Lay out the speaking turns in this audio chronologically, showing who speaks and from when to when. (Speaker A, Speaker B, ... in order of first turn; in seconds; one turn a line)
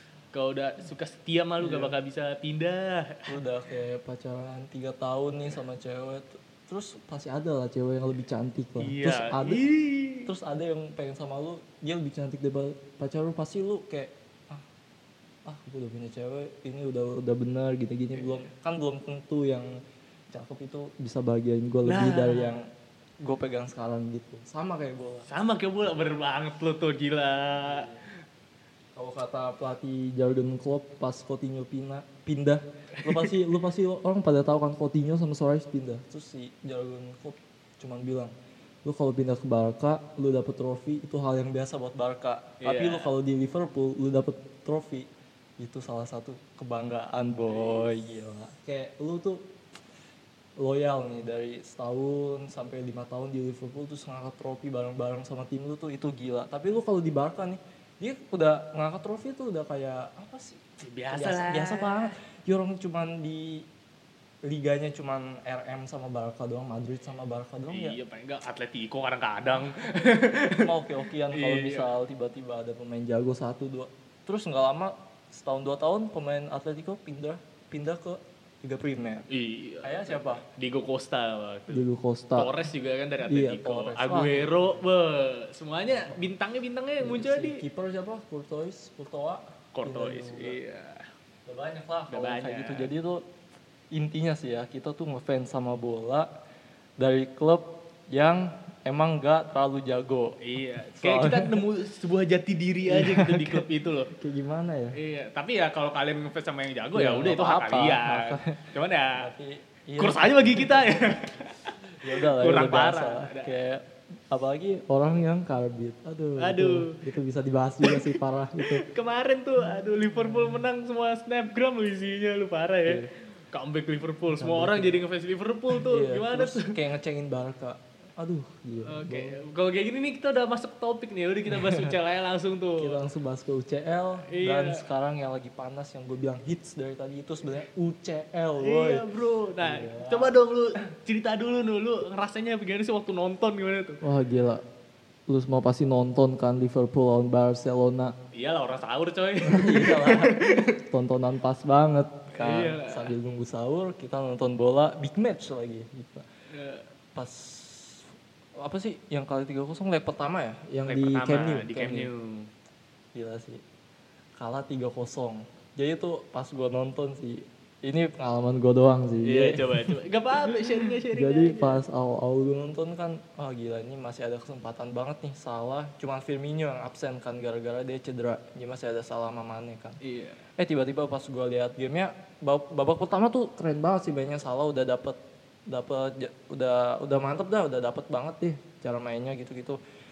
Speaker A: 0.3-3.3
Speaker B: 1.6-1.9
Speaker B: 3.3-9.6
Speaker A: 8.8-10.3
Speaker B: 10.2-14.6
Speaker B: 15.4-19.8
Speaker A: 18.1-18.5
Speaker B: 20.3-22.7
Speaker A: 21.9-22.6
Speaker B: 23.2-25.2
Speaker A: 25.2-27.9
Speaker B: 27.6-28.0
Speaker B: 28.9-38.3
Speaker A: 33.0-33.3
Speaker B: 38.8-45.1
Speaker A: 42.6-43.1
Speaker B: 45.6-49.5
Speaker A: 47.5-48.0
Speaker B: 50.6-63.6
Speaker A: 60.8-62.1
Speaker B: 64.4-68.0
Speaker A: 67.7-70.7
Speaker B: 70.5-79.2
Speaker A: 71.3-71.9
Speaker A: 79.3-81.8
Speaker B: 79.8-80.4
Speaker B: 81.7-82.5
Speaker A: 82.3-87.6
Speaker B: 83.3-84.8
Speaker B: 85.9-86.3
Speaker B: 87.0-90.6
Speaker A: 89.7-91.1
Speaker B: 91.5-93.2
Speaker A: 92.1-92.9
Speaker B: 93.9-96.3
Speaker B: 97.0-100.4
Speaker A: 100.4-104.1
Speaker B: 100.9-101.6
Speaker B: 102.9-104.9
Speaker A: 104.9-109.3
Speaker B: 106.9-111.0
Speaker A: 110.0-113.5
Speaker B: 112.0-118.8
Speaker A: 116.4-117.0
Speaker A: 117.8-126.7
Speaker B: 119.7-120.6
Speaker B: 124.3-125.0
Speaker B: 125.7-129.4
Speaker A: 128.9-133.0
Speaker B: 131.5-131.9
Speaker B: 132.8-139.0
Speaker A: 134.3-134.8
Speaker A: 138.6-144.0
Speaker B: 139.6-140.3
Speaker B: 144.0-144.6
Speaker B: 145.3-148.1
Speaker A: 148.3-150.7
Speaker B: 149.5-156.3
Speaker A: 152.3-153.1
Speaker A: 156.5-156.8
Speaker B: 157.1-162.1
Speaker A: 160.9-162.5
Speaker B: 163.1-163.6
Speaker B: 164.4-169.9
Speaker A: 169.2-171.8
Speaker B: 171.1-180.0
Speaker A: 180.0-180.4
Speaker B: 180.6-189.8